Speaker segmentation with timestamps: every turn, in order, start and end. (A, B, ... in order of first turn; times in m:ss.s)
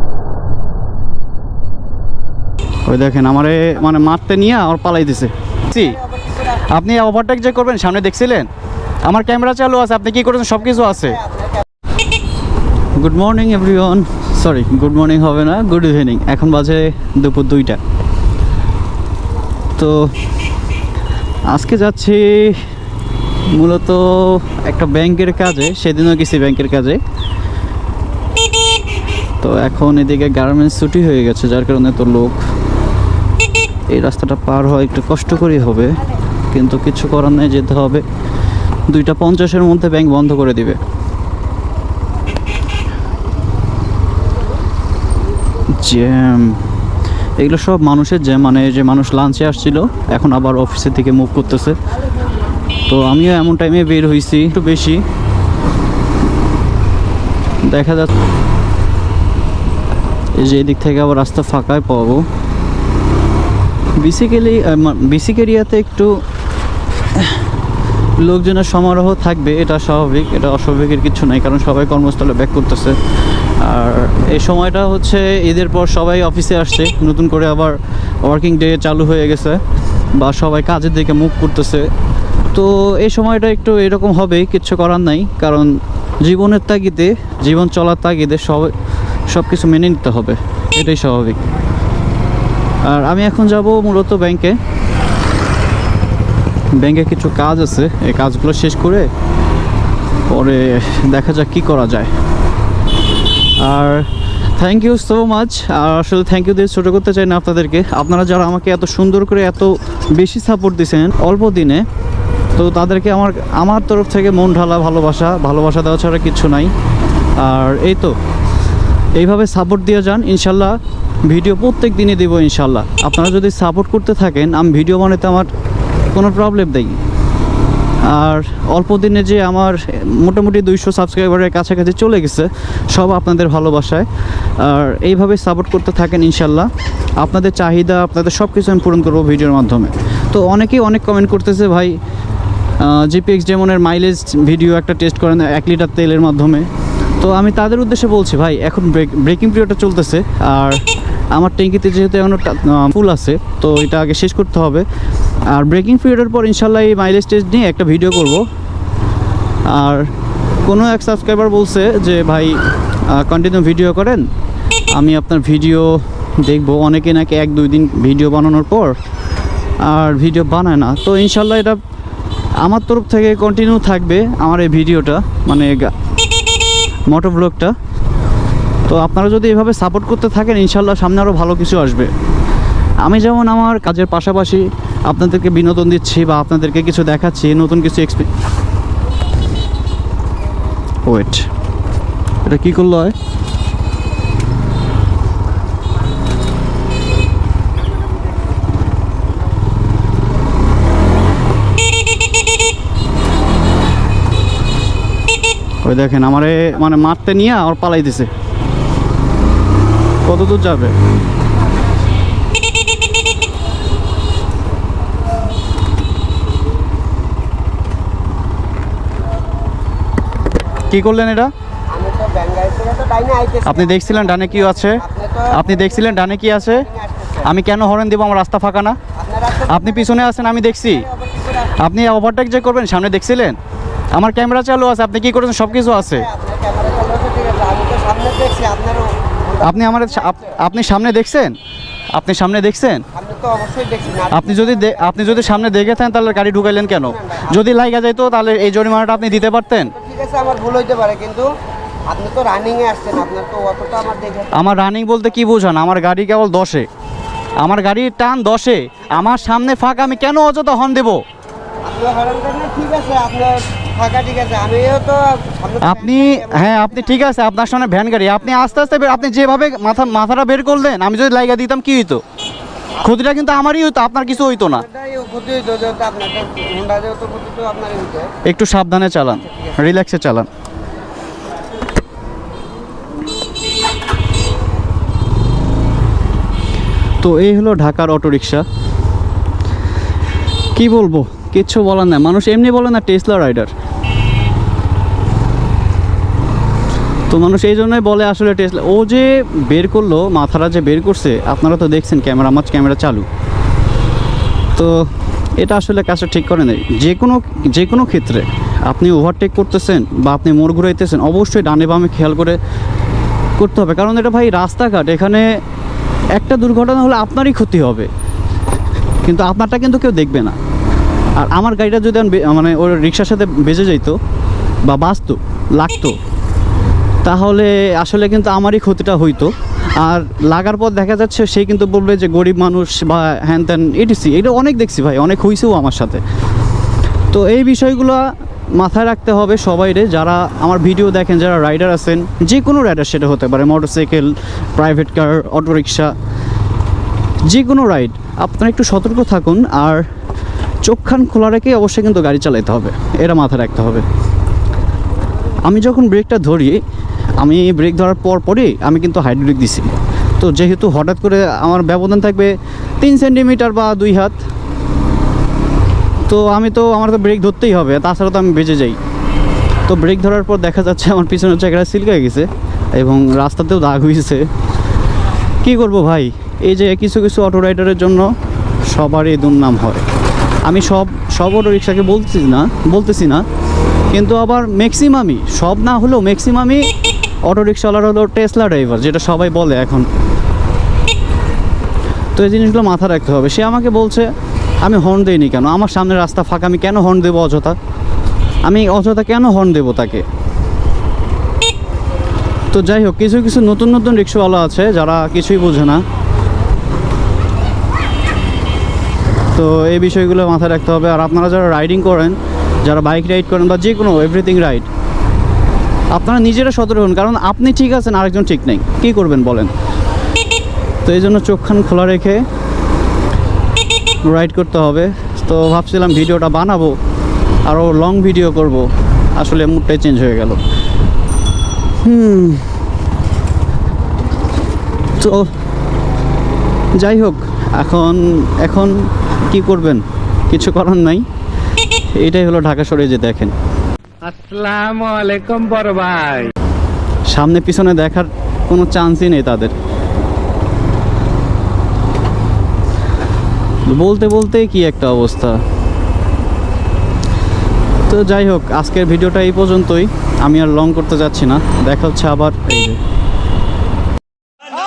0:02.9-0:08.5 A
0:09.0-0:11.3 A
0:13.0-0:17.8 A
0:19.8-0:20.1 A
0:21.5-0:22.7 A
0:23.5-0:27.0 A
0:29.4-0:32.4 A
0:33.9-0:36.0 A
0:36.5-0:38.0 A
0:38.9-0:40.8 A
0:45.8-0:46.7 A
0:47.4-0:51.8 A
0:52.9-0:55.0 A
0:57.6-0:58.1 A
1:00.4-1:02.3 A
1:04.0-1:06.2 A
1:08.2-1:13.0 A
1:13.6-1:19.6 A
1:20.2-1:21.9 A
1:22.5-1:28.8 A
1:29.3-1:31.4 A
1:32.8-1:34.6 A
1:36.7-1:39.1 A
1:40.3-1:42.1 A
1:43.6-1:51.9 A
1:52.6-1:56.7 A
1:57.4-1:58.2 A
1:59.2-2:05.5 A
2:06.1-2:07.0 A
2:08.1-2:14.1 A
2:14.6-2:22.0 A
2:22.8-2:26.7 A
2:27.2-2:30.8 A
2:31.3-2:34.9 A
2:35.5-2:38.5 A
2:39.7-2:40.1 A
2:40.6-2:44.3 A
2:44.9-2:49.0 A
2:49.9-2:51.8 A
2:52.6-2:55.9 A
2:57.1-2:57.8 A
2:58.9-3:02.1 A
3:03.0-3:08.3 A
3:11.1-3:11.5 A
3:12.4-3:13.2 A
3:25.8-3:28.3 A
3:30.2-3:31.0 A
3:40.9-3:41.5 A
3:41.9-3:45.8 B
3:43.6-3:46.9 A
3:46.9-3:47.4 B
3:47.4-3:49.0 A
3:49.2-3:50.2 B
3:49.5-3:51.1 A
3:51.0-3:51.7 B
3:51.6-3:53.6 A
3:54.1-3:56.3 A
3:56.1-3:59.6 B
3:59.6-4:01.6 A
4:00.2-4:00.6 B
4:02.1-4:03.0 A
4:03.1-4:05.2 B
4:04.3-4:09.9 A
4:10.0-4:11.6 B
4:12.1-4:14.5 B
4:14.5-4:16.9 A
4:17.6-4:21.2 A
4:21.8-4:26.9 B
4:25.8-4:32.2 A
4:33.0-4:34.9 A
4:34.9-4:38.4 B
4:38.4-4:40.5 A
4:47.2-4:48.7 A
4:50.8-4:53.7 A
4:57.3-5:03.3 A
5:04.8-5:12.6 A
5:13.6-5:15.5 A
5:16.4-5:18.1 A
5:19.2-5:20.6 A
5:21.4-5:24.2 A
5:24.8-5:26.2 A
5:27.2-5:36.2 A
5:37.3-5:46.1 A
5:47.5-5:50.1 A
5:50.8-5:54.1 A
5:55.6-5:56.8 A
5:57.4-6:04.4 A
6:06.3-6:09.0 A
6:09.9-6:14.5 A
6:15.6-6:18.3 A
6:18.9-6:20.1 A
6:20.6-6:23.4 A
6:24.1-6:26.9 A
6:27.5-6:30.1 A
6:32.4-6:34.3 A
6:34.8-6:37.8 A
6:38.6-6:40.2 A
6:42.7-6:46.0 A
6:49.6-6:54.9 A
6:56.1-6:59.7 A
7:01.0-7:02.5 A
7:04.3-7:07.0 A
7:07.6-7:10.6 A
7:12.0-7:12.7 A
7:15.2-7:15.5 A
7:17.0-7:21.3 A
7:22.2-7:23.5 A
7:24.2-7:26.5 C
7:27.3-7:29.7 A
7:33.9-7:35.6 A
7:38.1-7:43.0 A